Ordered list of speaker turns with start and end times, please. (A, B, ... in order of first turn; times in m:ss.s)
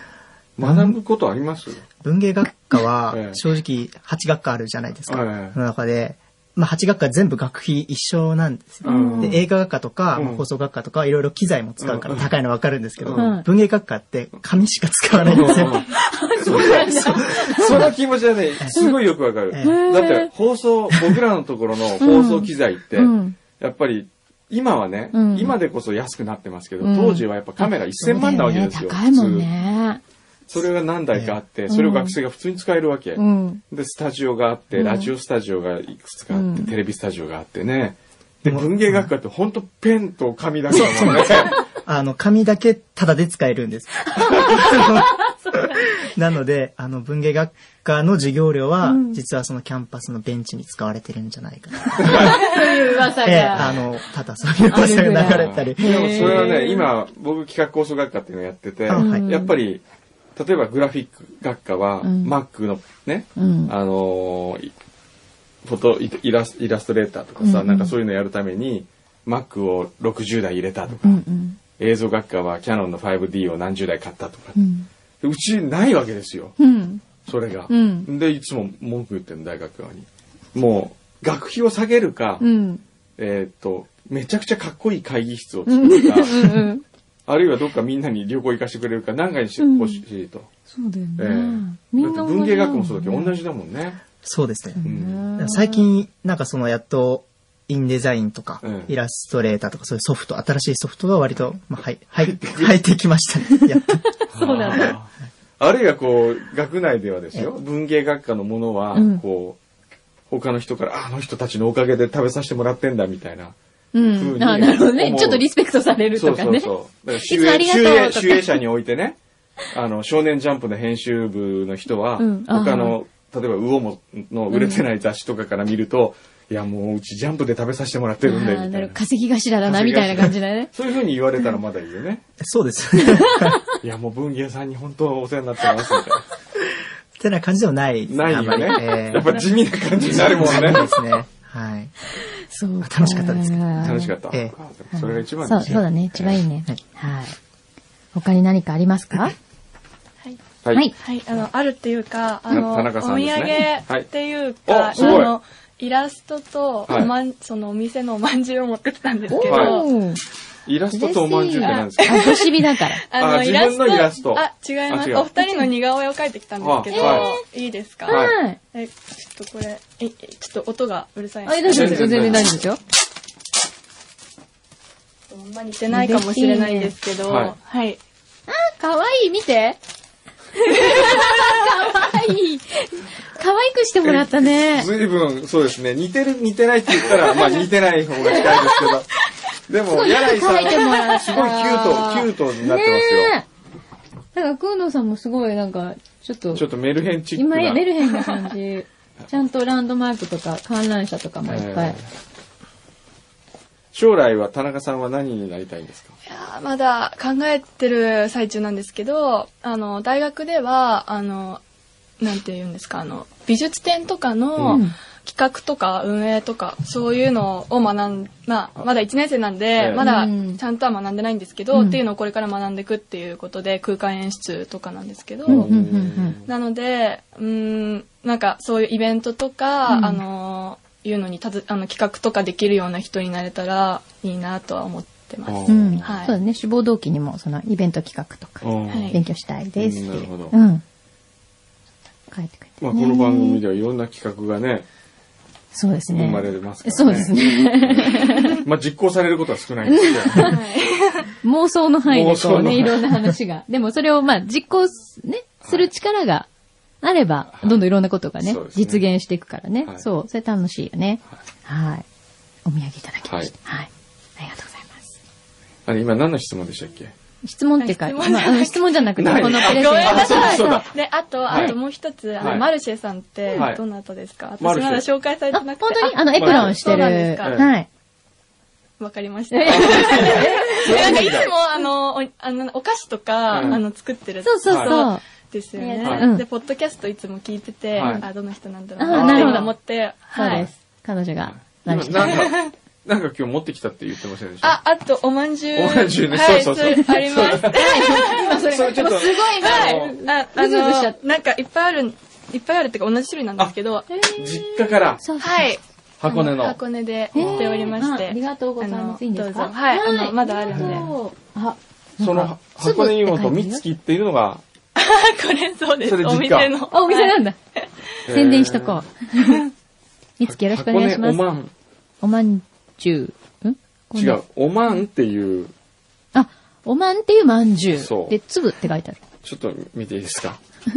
0:00.6-0:01.8 A
0:00.6-0:01.0 B
0:02.0-0:15.8 B
0:03.1-0:03.4 A
0:05.1-0:05.6 A
0:08.8-0:09.4 C
0:08.8-0:09.4 A
0:10.1-0:10.4 A
0:11.8-0:12.3 A
0:13.0-0:13.3 A
0:13.2-0:13.4 C
0:15.2-0:15.9 A
0:15.2-0:17.9 C
0:16.4-0:29.5 A
0:17.5-0:17.9 B
0:18.7-0:19.0 C
0:19.5-0:19.8 B
0:19.6-0:20.3 C
0:22.0-0:23.4 C
0:25.1-0:25.5 C
0:26.8-0:30.0 C
0:30.5-0:41.6 A
0:31.7-0:32.2 C
0:33.2-0:33.6 C
0:34.7-0:35.1 C
0:36.3-0:36.7 C
0:38.4-0:39.1 B
0:40.7-0:52.6 B
0:44.2-0:46.0 C
0:48.8-0:49.2 C
0:52.0-0:53.8 C
0:52.0-0:52.4 A
0:53.2-0:56.5 B
0:54.6-0:56.9 C
0:55.2-0:59.8 A
0:58.9-0:59.2 B
0:58.9-0:59.5 C
1:00.4-1:04.7 A
1:02.0-1:02.3 C
1:03.4-1:03.7 C
1:05.6-1:11.2 A
1:07.4-1:07.9 C
1:11.0-1:11.6 C
1:11.8-1:14.6 A
1:14.6-1:14.9 C
1:15.2-1:16.6 A
1:16.6-1:17.0 C
1:17.2-1:22.4 A
1:17.7-1:18.1 C
1:22.4-1:22.8 C
1:23.2-1:26.6 A
1:25.7-1:26.8 C
1:27.3-1:30.5 A
1:29.6-1:30.0 C
1:30.7-1:33.3 C
1:31.2-1:34.0 A
1:34.2-1:34.8 B
1:34.8-1:35.9 C
1:34.8-1:35.2 A
1:35.4-1:44.0 B
1:38.6-1:38.9 A
1:42.2-1:42.8 A
1:44.2-1:44.9 C
1:44.3-1:49.6 A
1:48.9-1:49.2 C
1:50.3-1:53.5 A
1:53.9-1:58.6 C
1:54.1-1:55.5 A
1:56.2-1:59.2 A
1:59.7-2:09.0 A
2:02.2-2:03.0 C
2:04.5-2:04.8 C
2:08.2-2:10.7 C
2:09.6-2:12.2 A
2:12.4-2:13.6 B
2:13.0-2:13.7 C
2:13.8-2:16.3 A
2:17.2-2:19.4 B
2:18.1-2:20.9 A
2:18.8-2:19.4 C
2:20.1-2:21.9 B
2:20.5-2:20.8 C
2:22.2-2:24.1 C
2:22.8-2:24.5 B
2:23.8-2:26.4 A
2:24.9-2:27.4 C
2:28.1-2:29.3 C
2:30.9-2:39.9 D
2:32.5-2:34.1 A
2:34.7-2:35.3 A
2:35.0-2:35.3 C
2:36.9-2:37.1 A
2:39.3-2:40.2 C
2:39.4-2:39.8 A
2:40.6-2:42.4 A
2:40.9-2:43.0 C
2:41.6-2:52.5 D
2:43.2-2:45.3 A
2:46.6-2:47.3 A
2:46.9-2:47.4 C
2:48.0-2:48.6 C
2:48.1-2:48.3 A
2:51.4-2:52.8 C
2:51.6-2:52.5 A
2:55.3-2:58.0 D
2:55.9-2:56.9 C
2:57.2-2:57.5 A
2:58.5-2:59.8 C
3:00.5-3:04.9 C
3:00.9-3:01.5 D
3:04.0-3:09.1 A
3:07.0-3:07.6 C
3:08.2-3:08.9 C
3:09.7-3:13.3 A
3:09.9-3:13.4 C
3:14.3-3:16.6 C
3:16.5-3:17.8 A
3:17.3-3:22.0 C
3:21.4-3:22.1 A
3:23.9-3:26.2 A
3:26.3-3:31.6 D
3:32.2-3:45.7 D
3:34.6-3:34.8 A
3:34.7-3:34.9 C
3:39.8-3:40.0 A
3:40.0-3:40.6 C
3:41.7-3:42.0 C
3:45.4-3:46.5 A
3:45.5-3:46.4 C
3:46.4-3:56.3 D
3:49.9-3:50.2 C
3:55.4-3:56.2 A
3:55.7-4:00.8 C
3:58.6-3:59.2 A
3:58.9-3:59.2 D
3:59.8-4:00.6 A
4:02.3-4:03.6 C
4:02.8-4:04.8 A
4:05.7-4:08.6 C
4:06.1-4:10.6 A
4:09.9-4:10.6 C
4:10.4-4:11.3 D
4:11.4-4:16.5 C
4:12.1-4:13.2 A
4:15.6-4:15.9 A
4:17.0-4:22.0 C
4:17.5-4:17.8 A
4:18.4-4:19.0 A
4:22.6-4:25.1 C
4:23.2-4:23.5 A
4:25.8-4:27.1 A
4:27.4-4:30.9 C
4:27.8-4:37.6 D
4:29.2-4:30.9 A
4:31.5-4:31.8 A
4:32.4-4:32.7 A
4:33.5-4:33.8 A
4:34.6-4:35.0 A
4:35.5-4:37.9 C
4:36.4-4:37.7 A
4:39.0-4:50.7 D
4:39.5-4:41.3 C
4:39.6-4:41.5 A
4:43.5-4:43.8 A
4:44.4-4:45.2 C
4:44.7-4:45.0 A
4:45.8-4:46.4 C
4:47.9-4:48.2 A
4:49.0-4:49.7 C
4:49.1-4:49.7 A
4:50.3-4:52.5 C
4:51.5-4:54.8 A
4:52.2-4:52.7 D
4:54.6-5:04.1 D
4:55.7-5:00.2 A
4:57.4-5:01.2 C
5:04.1-5:05.7 C
5:04.4-5:05.2 A
5:05.4-5:11.1 D
5:06.2-5:06.8 A
5:07.3-5:08.0 A
5:07.3-5:13.8 C
5:10.7-5:11.0 A
5:12.2-5:14.6 A
5:15.0-5:17.8 D
5:16.0-5:16.7 A
5:16.9-5:17.6 C
5:18.3-5:19.0 A
5:18.3-5:19.6 C
5:20.4-5:21.4 C
5:20.4-5:21.7 A
5:22.2-5:24.4 C
5:24.2-5:25.7 A
5:26.3-5:29.2 C
5:28.0-5:28.4 A
5:29.4-5:30.6 A